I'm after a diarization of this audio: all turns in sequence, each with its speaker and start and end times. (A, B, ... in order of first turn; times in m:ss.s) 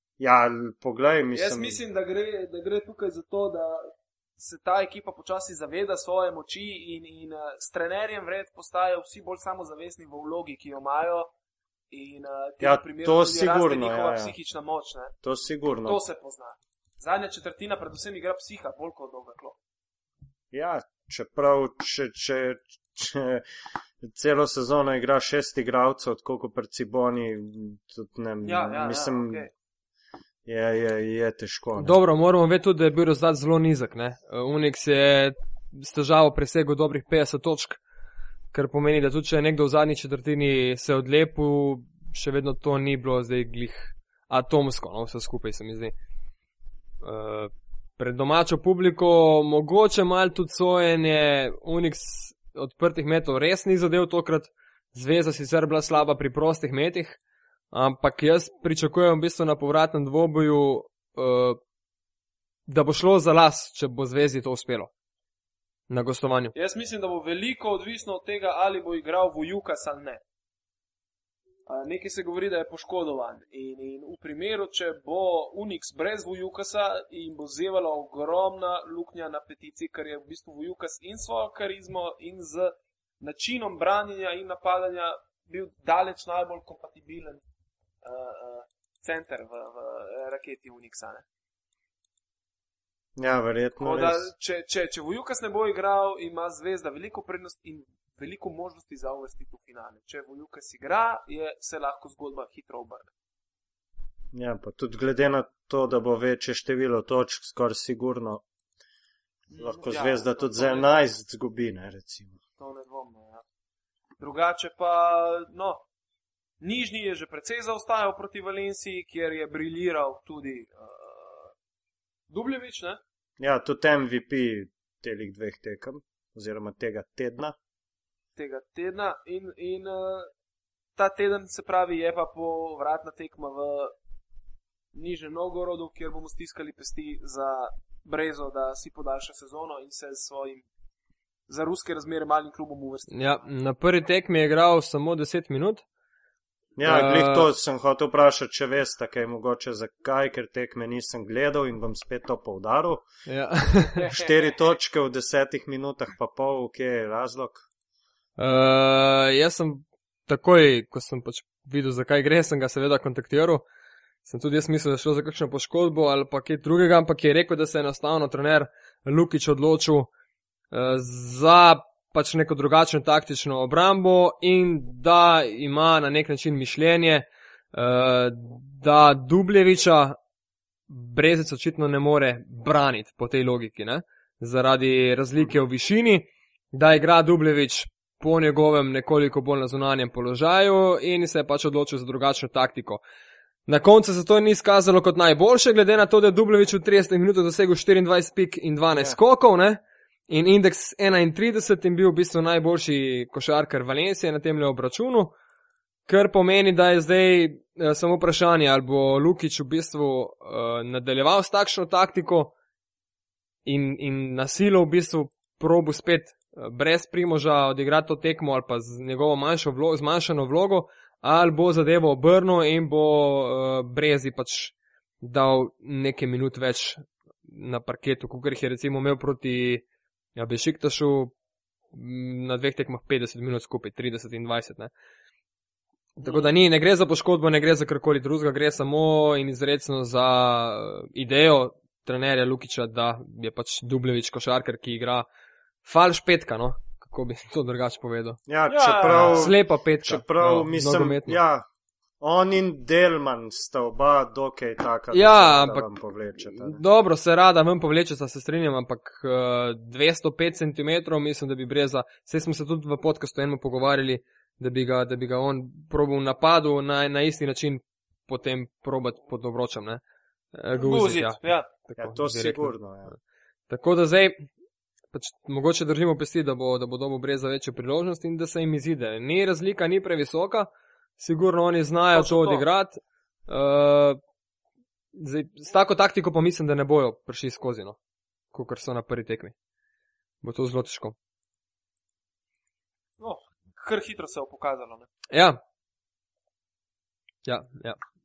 0:00.2-0:01.8 A
0:01.3-0:11.3 B
0:11.9-0:15.2 B
0:12.6-0:14.4 A
0:15.2-0:16.0 A
0:15.8-0:19.6 B
0:20.5-0:23.4 A
0:24.0-0:29.5 A
0:28.4-0:29.5 B
0:30.5-0:32.0 A
0:31.8-0:37.8 C
0:38.5-0:45.9 C
0:47.0-0:57.2 C
0:57.7-1:01.6 C
1:02.7-1:04.9 C
1:05.9-1:06.5 C
1:06.5-1:10.2 B
1:11.7-1:27.4 B
1:28.0-1:31.2 B
1:33.2-1:34.3 A
1:33.8-1:43.1 B
1:44.3-1:48.4 A
1:49.5-1:51.0 B
1:49.6-1:52.4 A
1:52.6-1:53.4 B
1:54.2-1:55.8 B
1:56.6-2:01.5 B
2:02.3-2:03.0 B
2:03.4-2:07.6 A
2:08.4-2:10.3 B
2:11.0-2:14.0 B
2:14.9-2:20.7 B
2:21.5-2:23.4 B
2:23.1-2:25.8 C
2:26.8-2:33.0 A
2:26.8-2:27.5 C
2:33.3-2:34.0 C
2:34.0-2:34.5 B
2:34.1-2:37.6 A
2:38.4-2:43.6 C
2:44.3-2:50.1 C
2:50.7-3:00.2 C
3:00.9-3:13.0 C
3:13.7-3:25.3 C
3:18.9-3:19.2 A
3:26.1-3:32.5 C
3:33.7-3:49.8 C
3:50.4-3:51.3 C
3:51.9-3:54.9 C
3:56.2-4:05.3 C
3:56.2-3:56.5 B
4:05.8-4:08.4 C
4:08.5-4:11.7 A
4:08.7-4:09.5 B
4:09.0-4:11.4 C
4:12.2-4:16.8 A
4:15.1-4:15.9 C
4:16.5-4:30.0 C
4:30.5-4:32.7 C
4:30.7-4:31.7 B
4:32.0-4:33.1 A
4:33.7-4:34.5 C
4:35.1-4:44.2 C
4:42.1-4:42.6 B
4:45.2-4:48.0 C
4:48.5-4:49.5 C
4:50.4-4:51.2 C
4:53.2-4:55.1 B
4:55.3-4:55.6 C
4:57.4-4:58.0 C